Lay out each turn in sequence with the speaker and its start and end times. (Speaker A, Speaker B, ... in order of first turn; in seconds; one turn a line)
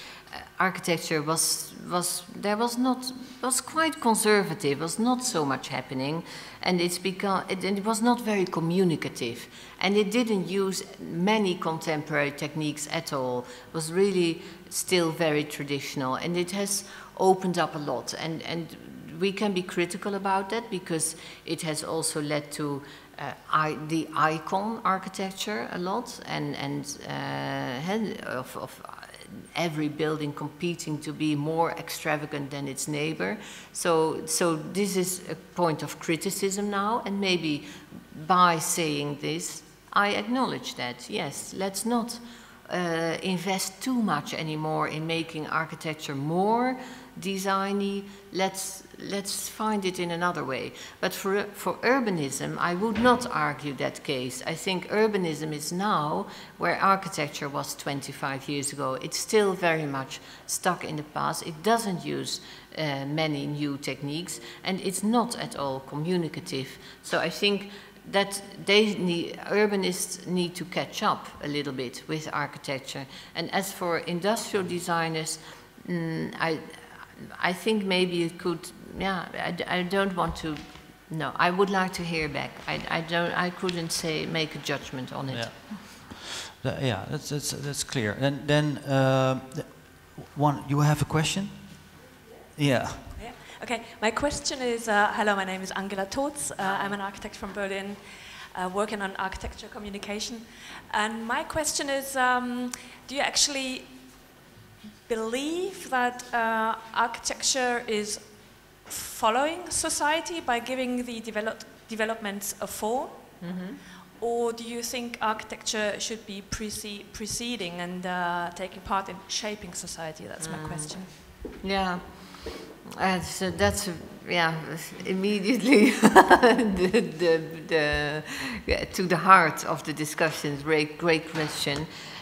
Speaker A: 0.6-85.7
Speaker B: 85.3-92.0
Speaker B: 92.6-93.1
Speaker C: 93.1-104.3
Speaker C: 105.1-113.7
Speaker A: 113.4-113.8
Speaker C: 114.2-121.1
Speaker A: 120.4-131.9